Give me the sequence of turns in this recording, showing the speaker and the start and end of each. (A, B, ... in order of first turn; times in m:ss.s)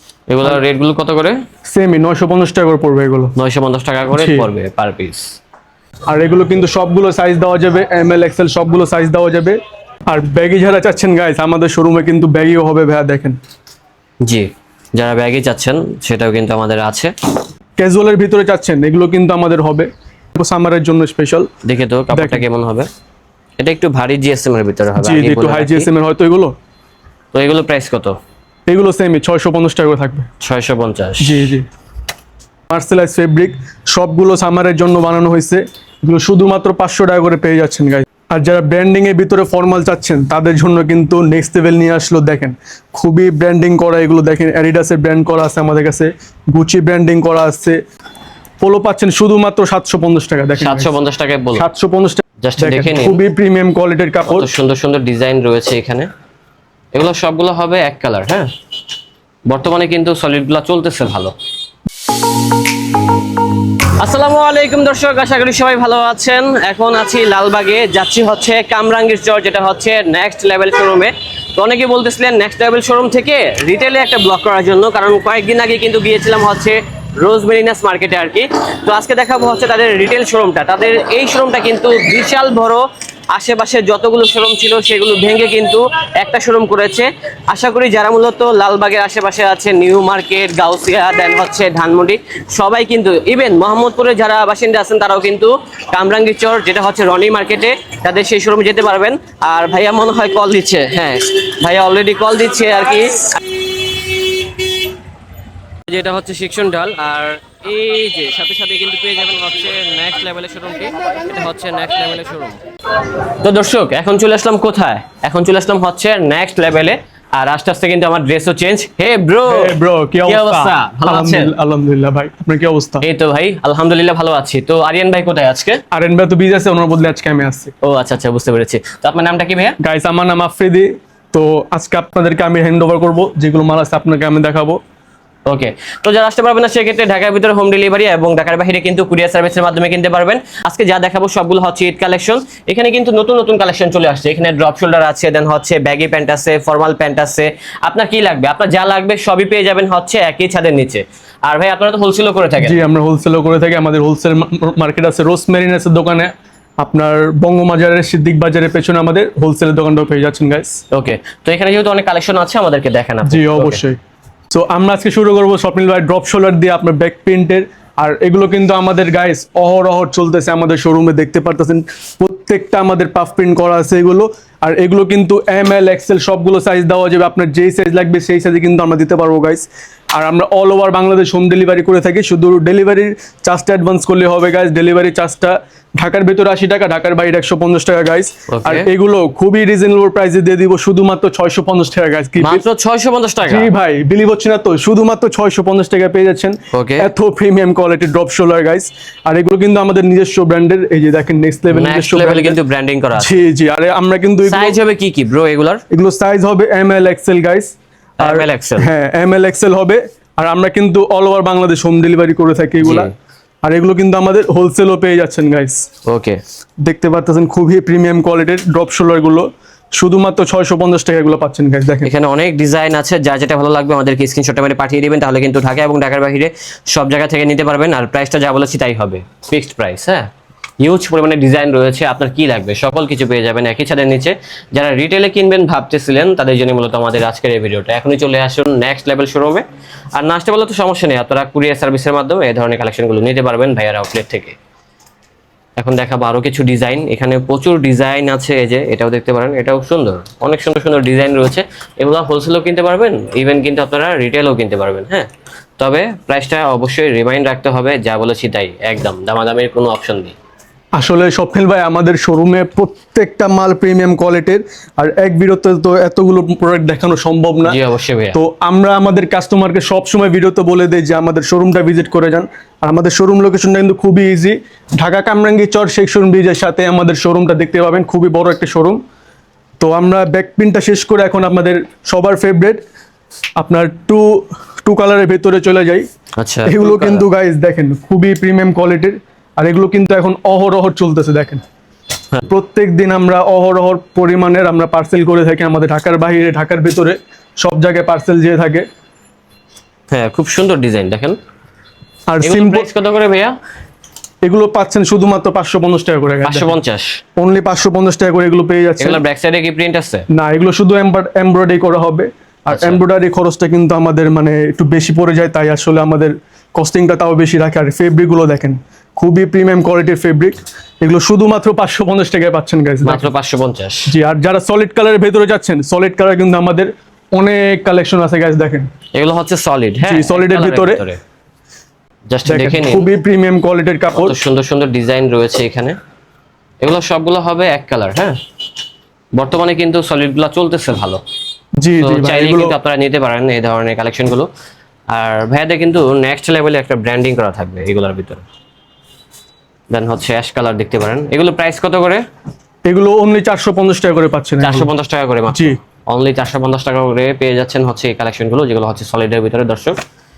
0:00.3-0:01.4 A
0:01.7-0:03.3 B
0:03.4-0:05.2 A
0:04.1-0:04.5 B
0:06.1-0:13.4 B
0:14.2-0:17.1 A
0:17.8-0:21.5 B
0:21.6-0:22.9 A
0:22.1-0:22.4 B
0:23.6-0:25.9 A
0:25.0-0:26.5 B
0:27.3-0:28.2 A
0:28.7-0:30.3 B
0:30.4-0:31.4 A
0:31.2-0:31.7 B
0:32.7-0:47.8 B
0:48.6-0:50.9 B
0:50.6-0:51.7 A
0:51.6-0:54.5 B
0:52.4-0:53.2 A
0:54.3-0:56.1 A
0:57.0-0:58.5 A
0:59.5-1:01.3 A
1:04.0-1:43.6 A
1:45.9-1:52.6 A
1:53.2-2:01.5 A
1:59.5-2:03.0 B
2:03.0-2:05.8 A
2:05.9-2:07.7 B
2:07.8-2:09.8 A
2:09.8-2:14.8 B
2:15.5-2:32.8 A
2:32.6-2:40.8 B
2:40.9-2:43.8 A
2:43.2-2:44.0 B
2:44.5-3:12.6 B
3:08.5-3:08.9 A
3:12.4-3:13.7 A
3:13.5-3:22.6 B
3:16.7-3:17.1 A
3:21.7-3:23.4 A
3:23.2-3:24.8 B
3:24.4-3:25.8 A
3:25.9-3:33.1 B
3:28.2-3:28.9 A
3:32.8-3:33.1 A
3:33.6-3:35.8 B
3:36.1-3:36.4 A
3:36.8-3:42.1 B
3:42.0-3:50.3 A
3:50.8-3:59.6 A
4:00.2-4:04.6 A
4:05.8-4:15.3 A
4:15.8-4:20.4 A
4:21.0-4:27.8 B
4:27.6-4:28.4 A
4:28.3-4:39.0 B
4:39.8-4:42.8 B
4:43.6-4:46.1 B
4:46.4-4:47.3 A
4:46.7-4:51.6 B
4:52.5-4:58.9 B
5:00.1-5:01.4 A
5:02.3-5:02.9 B
5:02.4-5:03.6 A
5:04.5-5:06.7 B
5:06.4-5:07.2 A
5:07.4-5:09.2 B
5:09.0-5:10.3 A
5:10.3-5:23.2 B
5:12.7-5:13.0 A
5:23.0-5:24.1 A
5:24.1-5:28.9 B
5:29.2-5:31.2 A
5:30.0-5:31.0 B
5:32.3-5:33.1 A
5:32.5-5:34.4 B
5:34.1-5:36.0 A
5:36.8-5:38.4 A
5:39.4-5:41.2 A
5:41.8-5:42.8 B
5:42.0-5:44.5 A
5:45.1-5:48.4 A
5:49.9-5:52.2 A
5:52.9-5:54.9 B
5:54.6-6:00.0 A
5:55.5-5:55.8 B